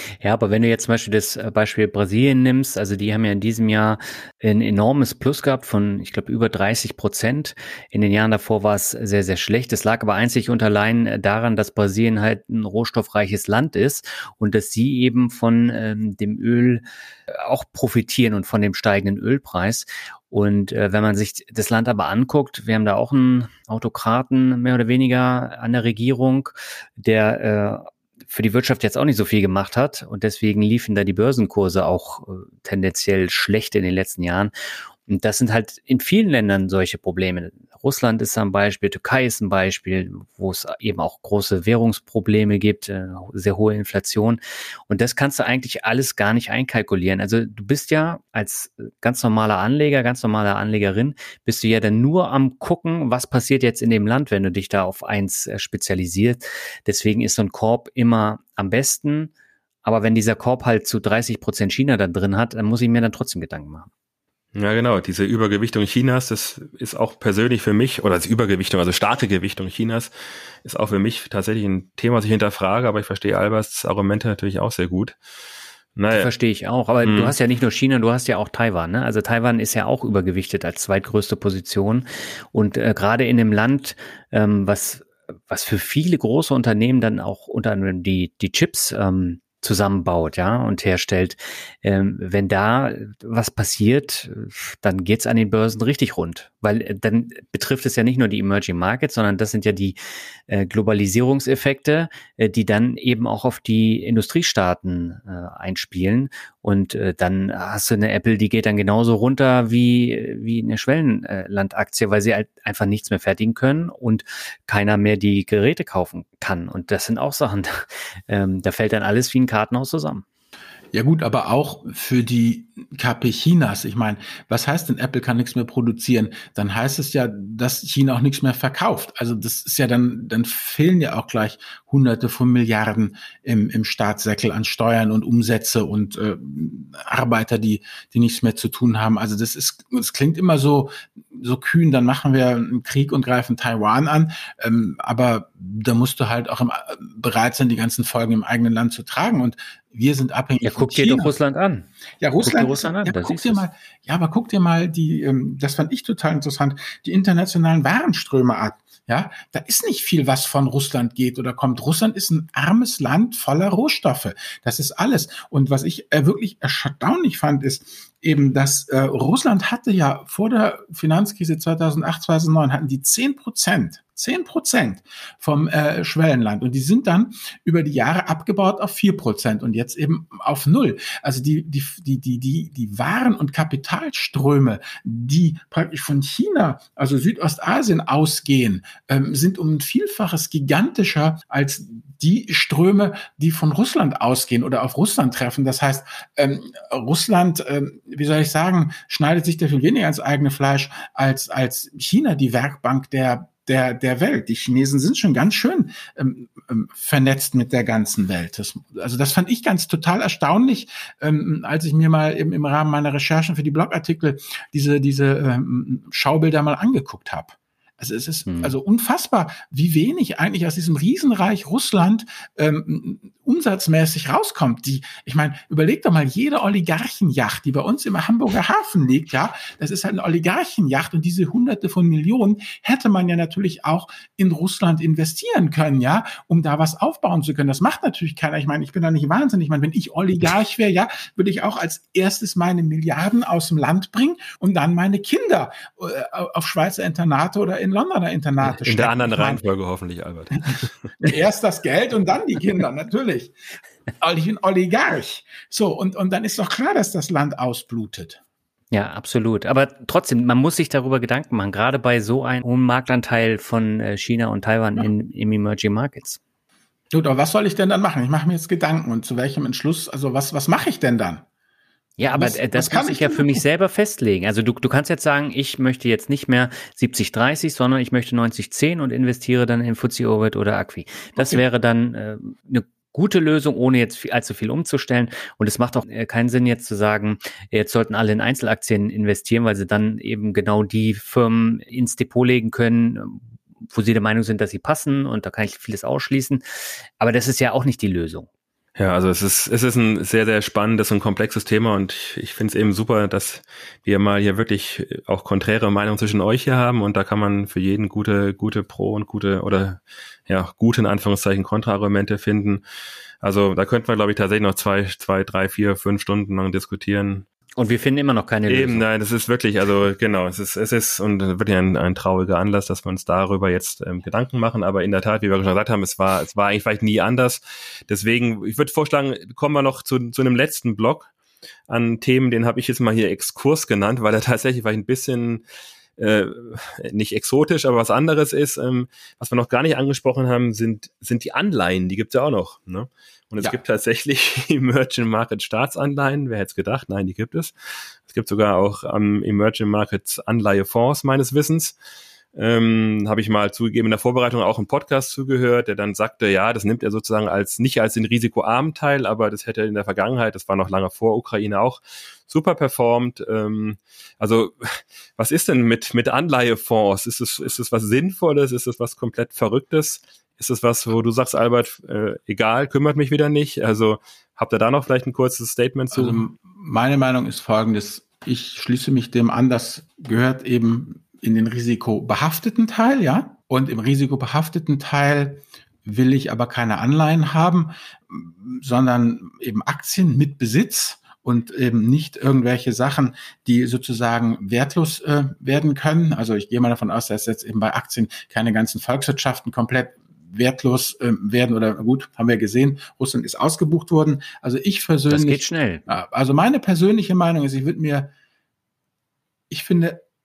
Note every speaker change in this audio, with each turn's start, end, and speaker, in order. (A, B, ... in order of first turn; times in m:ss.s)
0:00.2-0:34.5 A
0:35.1-0:59.3 A
0:59.8-1:03.9 A
1:04.6-1:15.2 B
1:16.0-1:16.3 B
1:16.1-1:40.0 A
1:17.0-1:17.3 B
1:40.5-2:00.2 A
2:00.9-2:31.4 C
2:30.6-2:31.9 A
2:32.2-4:09.6 C
2:32.4-2:33.6 A
3:38.5-3:38.8 A
4:08.6-4:11.1 B
4:11.2-4:13.6 C
4:14.2-4:18.4 C
4:18.9-4:26.4 A
4:27.1-4:31.4 C
4:32.2-4:56.6 A
4:32.3-4:33.6 C
4:41.4-4:41.6 C
4:57.2-4:58.5 A
4:59.0-5:12.8 B
5:13.4-5:17.5 B
5:17.8-5:19.0 A
5:18.7-5:31.3 B
5:31.9-5:35.6 B
5:36.2-5:47.7 B
5:48.3-5:52.0 B
5:52.5-6:16.4 B
6:16.1-6:48.3 C
6:45.3-6:46.0 A
6:49.7-6:50.2 C